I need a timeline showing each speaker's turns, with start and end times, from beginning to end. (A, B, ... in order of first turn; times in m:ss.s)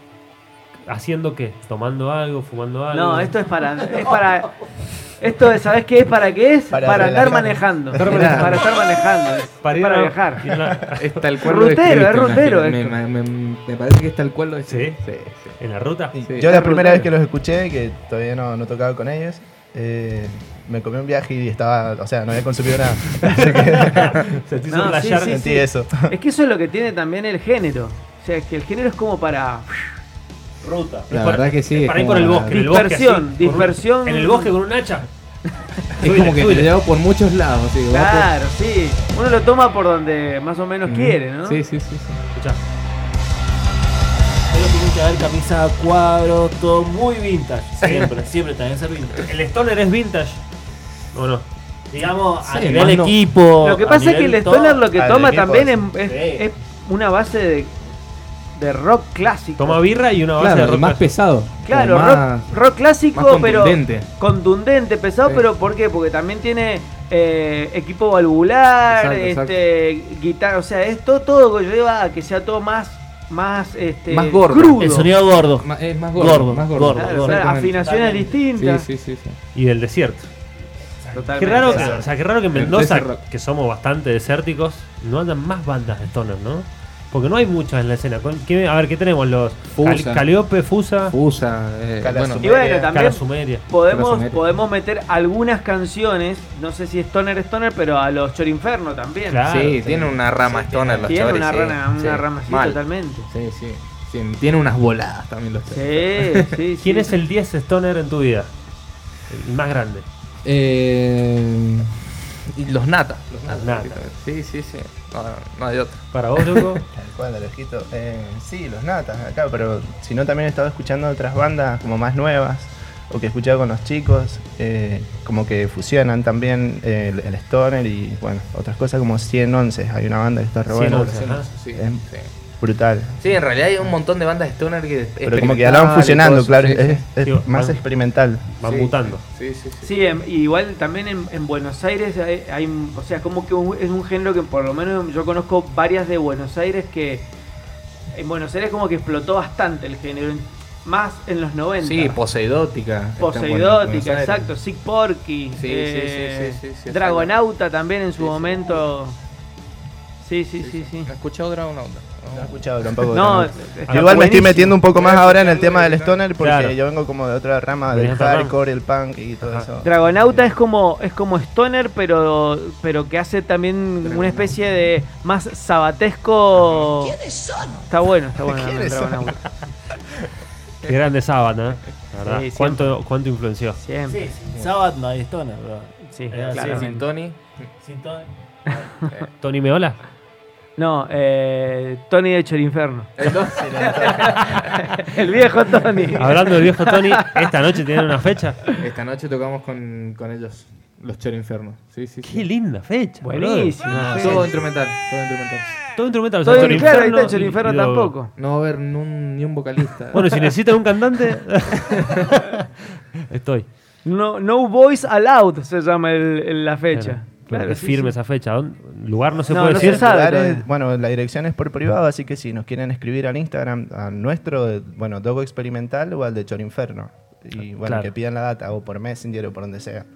0:00.8-0:03.4 A
0:02.9-0:04.5 B
0:05.2-0:10.5 B
0:06.7-0:07.6 C
0:07.9-0:08.7 A
0:08.0-0:08.6 D
0:09.6-0:11.2 A
0:11.0-0:15.6 D
0:11.4-0:13.0 B
0:14.7-0:15.0 A
0:15.6-0:16.1 A
0:16.1-0:24.2 C
0:16.2-0:16.5 D
0:16.4-0:17.1 B
0:23.3-0:25.4 A
0:24.7-0:30.0 B
0:25.2-0:26.1 C
0:30.6-0:35.1 A
0:31.1-0:32.7 D
0:32.5-0:34.5 B
0:36.0-0:36.7 A
0:36.0-0:38.3 D
0:37.9-0:41.6 B
0:40.8-0:42.2 D
0:42.3-0:42.6 A
0:44.5-0:49.2 E
0:47.8-0:48.2 A
0:49.2-0:50.4 A
0:51.1-0:51.4 A
0:51.9-0:54.9 E
0:52.4-0:53.2 D
0:52.6-0:53.1 A
0:53.6-0:57.8 B
0:54.9-0:55.8 C
0:56.0-0:56.4 E
0:58.5-0:59.8 B
0:59.6-1:01.1 A
1:00.4-1:02.5 D
1:01.6-1:15.1 B
1:03.1-1:04.1 D
1:08.9-1:09.6 D
1:14.1-1:17.8 D
1:14.8-1:18.4 E
1:16.9-1:18.9 B
1:18.5-1:19.4 D
1:19.5-1:20.3 A
1:21.1-1:22.1 B
1:21.3-1:31.1 A
1:21.6-1:23.2 D
1:29.7-1:30.2 D
1:31.1-1:32.5 D
1:32.0-1:32.9 C
1:32.4-1:39.4 B
1:32.9-1:33.6 A
1:33.9-1:34.4 D
1:39.3-1:39.8 A
1:39.4-1:46.5 D
1:39.6-1:41.2 C
1:41.1-1:43.3 B
1:45.7-1:47.1 B
1:46.8-1:48.5 A
1:49.3-1:50.0 A
1:50.4-1:56.8 D
1:53.5-1:54.0 A
1:56.1-1:56.8 A
1:56.9-2:11.2 C
2:10.7-2:11.5 A
2:11.0-2:12.3 D
2:11.7-2:12.0 C
2:12.6-2:14.0 C
2:13.2-2:17.0 D
2:15.2-2:18.5 C
2:17.2-2:17.8 A
2:18.6-2:19.2 A
2:18.6-2:19.9 D
2:19.8-2:27.3 B
2:28.1-2:32.2 B
2:31.8-2:34.5 D
2:33.2-2:39.2 B
2:35.5-2:37.3 D
2:38.2-2:38.8 D
2:40.2-2:41.1 B
2:40.6-2:42.6 D
2:42.3-2:49.9 C
2:43.1-2:44.8 B
2:43.9-2:44.3 A
2:44.9-2:46.2 D
2:46.4-2:46.8 A
2:47.9-2:48.5 A
2:49.4-2:49.7 A
2:49.8-2:57.2 B
2:54.0-2:54.5 D
2:57.2-2:57.7 D
2:57.9-2:59.4 B
2:58.4-2:59.5 C
3:00.8-3:03.8 A
3:02.2-3:02.9 B
3:03.8-3:04.2 B
3:04.1-3:07.1 E
3:06.1-3:07.0 B
3:06.3-3:06.8 A
3:06.5-3:07.6 D
3:07.8-3:08.8 E
3:09.4-3:10.0 A
3:10.8-3:17.4 B
3:13.2-3:14.6 D
3:13.4-3:14.5 C
3:16.2-3:18.7 A
3:18.8-3:22.6 D
3:22.2-3:24.6 A
3:23.2-3:24.6 B
3:23.9-3:25.8 D
3:25.9-3:28.1 A
3:26.4-3:28.3 B
3:26.5-3:27.0 D
3:28.4-3:30.4 D
3:30.1-3:33.7 A
3:34.0-3:38.1 B
3:36.9-3:40.1 A
3:39.5-3:40.7 B
3:39.5-3:50.1 C
3:47.6-3:48.1 A